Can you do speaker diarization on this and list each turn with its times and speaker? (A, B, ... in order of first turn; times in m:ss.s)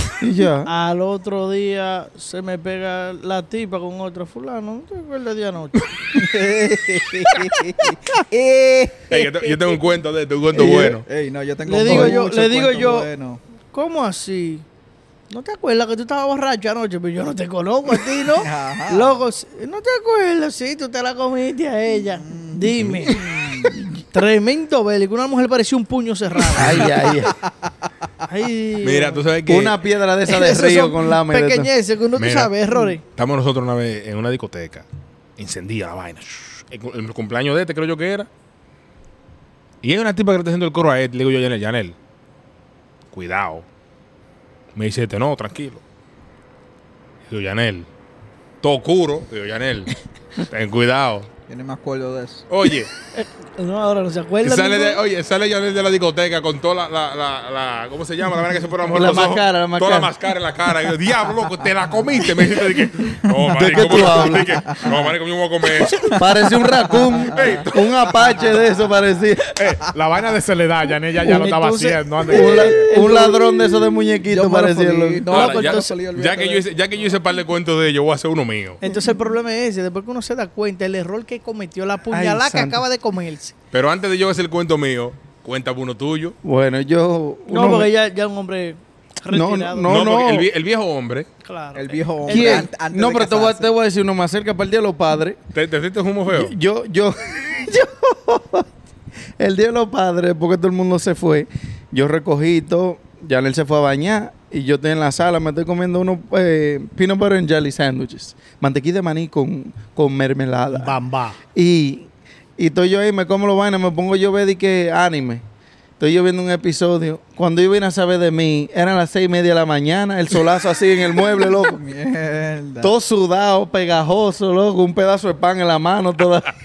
0:00.2-0:00.7 A
0:00.6-0:05.9 B
0:06.1-0:09.9 C
0:09.1-0:11.0 D
0:10.5-0:11.0 A
0:10.6-0:13.4 C
0:11.6-0:13.1 B
0:11.8-0:12.2 A
0:13.7-0:14.6 B
0:15.3-0:23.3 B
0:18.3-0:19.2 C
0:22.2-0:23.8 C
0:24.1-0:27.0 B
0:26.6-0:27.4 A
0:26.6-0:27.7 C
0:28.3-0:29.2 B
0:28.8-0:29.8 D
0:29.5-0:31.7 A
0:30.2-0:33.0 B
0:32.2-0:32.5 D
0:33.0-0:34.9 D
0:35.4-0:38.3 D
0:39.8-0:42.0 D
0:43.1-0:43.6 D
0:44.8-0:45.8 D
0:47.3-0:47.9 D
0:48.6-0:51.3 D
0:51.5-0:52.4 C
0:52.5-0:52.9 D
0:53.1-0:55.0 B
0:54.4-1:06.2 D
0:58.9-1:00.1 A
1:03.5-1:04.6 A
1:03.9-1:04.9 C
1:05.8-1:09.5 A
1:06.1-1:07.6 C
1:07.2-1:07.7 D
1:08.2-1:08.6 C
1:09.6-1:13.0 E
1:11.2-1:13.8 B
1:12.3-1:15.3 A
1:13.3-1:16.7 C
1:15.3-1:18.8 D
1:15.3-1:16.0 B
1:18.8-1:23.6 B
1:22.1-1:22.8 A
1:23.7-1:26.4 D
1:26.4-1:27.9 A
1:27.5-1:30.0 B
1:29.3-1:30.5 A
1:29.8-1:31.3 D
1:31.4-1:32.7 B
1:31.8-1:33.8 C
1:32.3-1:35.4 A
1:35.5-1:36.6 D
1:36.3-1:38.7 A
1:39.4-1:51.0 A
1:50.7-1:51.4 E
1:51.5-1:55.4 A
1:56.0-2:01.8 A
2:01.4-2:02.9 C
2:02.8-2:06.5 A